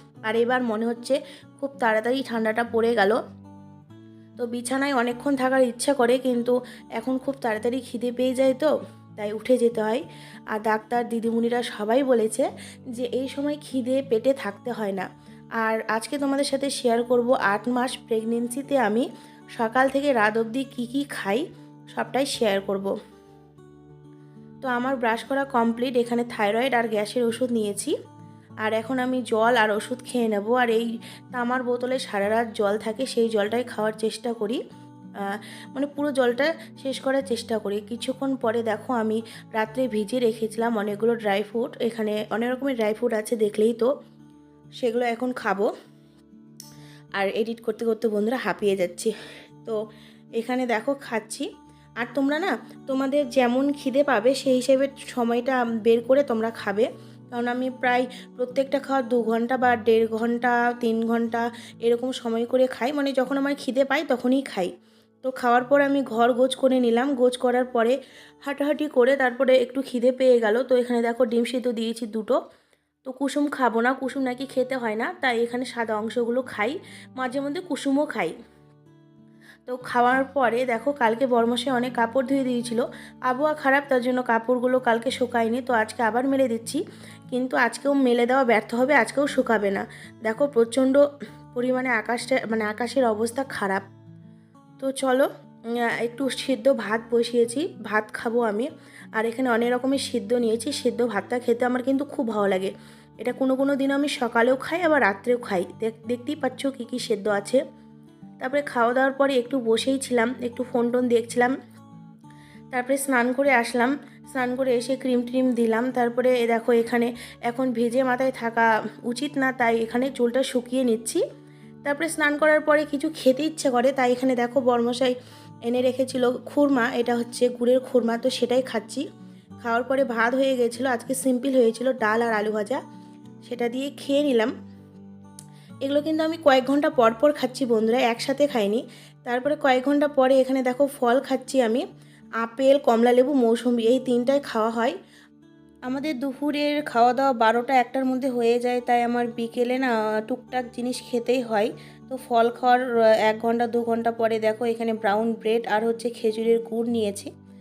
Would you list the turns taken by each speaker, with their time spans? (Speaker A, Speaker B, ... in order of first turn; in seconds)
Speaker A: 0.3-3.2, 4.4-15.1, 15.6-22.9, 24.6-27.9, 28.6-34.6, 35.3-43.9, 44.8-45.7, 47.2-49.1, 50.4-51.5, 52.0-64.7, 65.2-72.4, 73.0-78.3, 79.7-86.8, 87.3-91.0, 91.5-93.8, 94.8-95.3, 96.0-107.6, 108.4-111.5, 112.7-121.2, 121.8-125.2, 125.7-129.0, 129.6-132.8, 133.4-134.5, 135.8-141.8, 142.4-144.9, 145.9-157.3